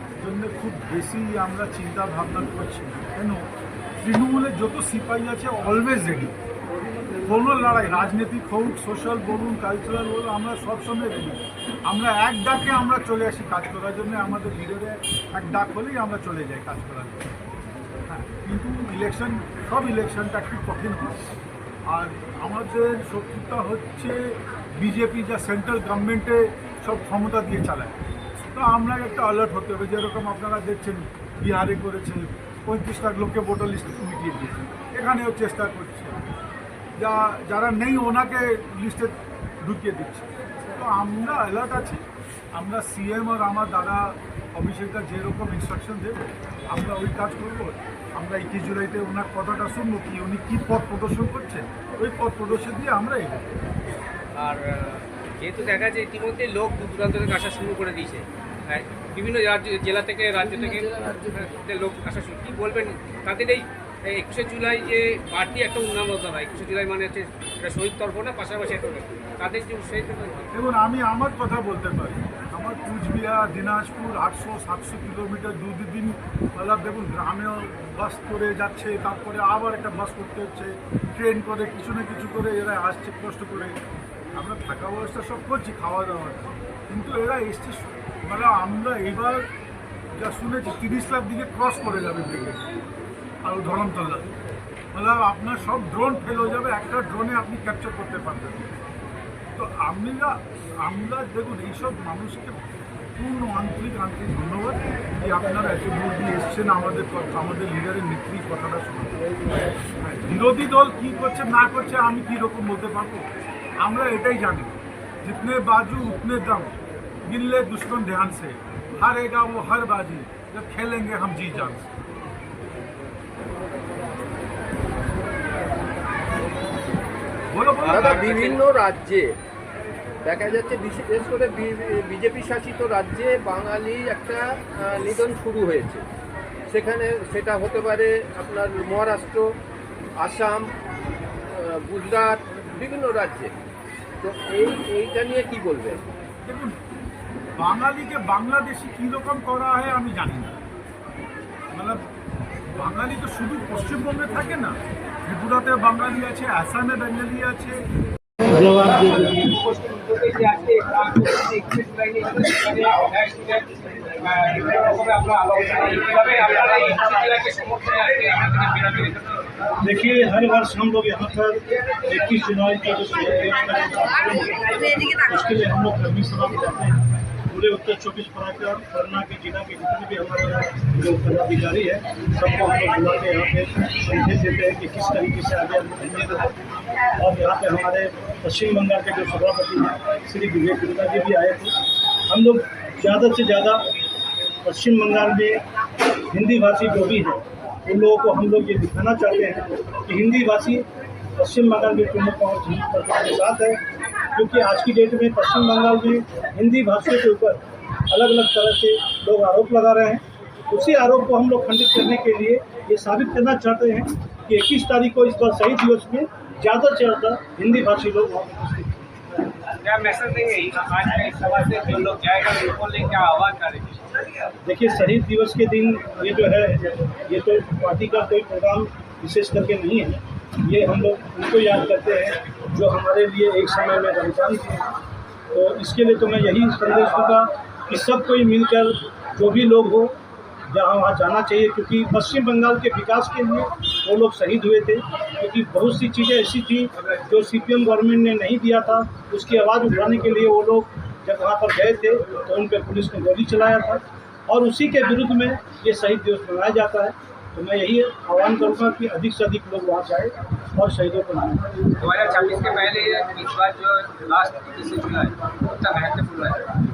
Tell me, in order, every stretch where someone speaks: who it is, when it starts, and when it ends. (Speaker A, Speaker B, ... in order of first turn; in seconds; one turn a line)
Speaker A: 0.2-3.5
Speaker A: 4.0-6.4
Speaker A: 7.2-17.3
Speaker A: 18.1-21.2
Speaker A: 21.9-28.0
Speaker A: 28.5-36.2
Speaker A: 37.0-42.0
Speaker A: 42.5-53.5
Speaker B: 54.4-70.5
Speaker A: 70.5-83.8
Speaker A: 84.3-89.5
Speaker A: 90.2-92.6
Speaker A: 93.4-94.3
Speaker A: 94.9-98.7
Speaker A: 99.5-109.2
Speaker A: 109.9-113.3
Speaker A: 113.8-121.9
Speaker A: 127.5-128.5
Speaker C: 127.9-129.4
Speaker B: 128.0-128.6
Speaker C: 130.2-136.1
Speaker C: 136.7-139.5
Speaker C: 140.2-140.7
Speaker C: 141.5-143.5
Speaker C: 144.2-146.0
Speaker A: 146.4-146.8
Speaker A: 147.6-150.6
Speaker A: 151.7-152.1
Speaker A: 152.7-157.8
Speaker D: 158.5-159.1
Speaker B: 159.1-169.3
Speaker D: 169.8-186.5
Speaker D: 187.2-191.8
Speaker D: 192.3-193.8
Speaker D: 194.6-195.6
Speaker D: 196.3-200.8
Speaker D: 201.4-203.8
Speaker D: 204.3-219.1
Speaker B: 219.8-224.1
Speaker D: 224.6-234.9
Speaker D: 235.5-240.1
Speaker D: 240.7-261.6
Speaker B: 262.0-266.7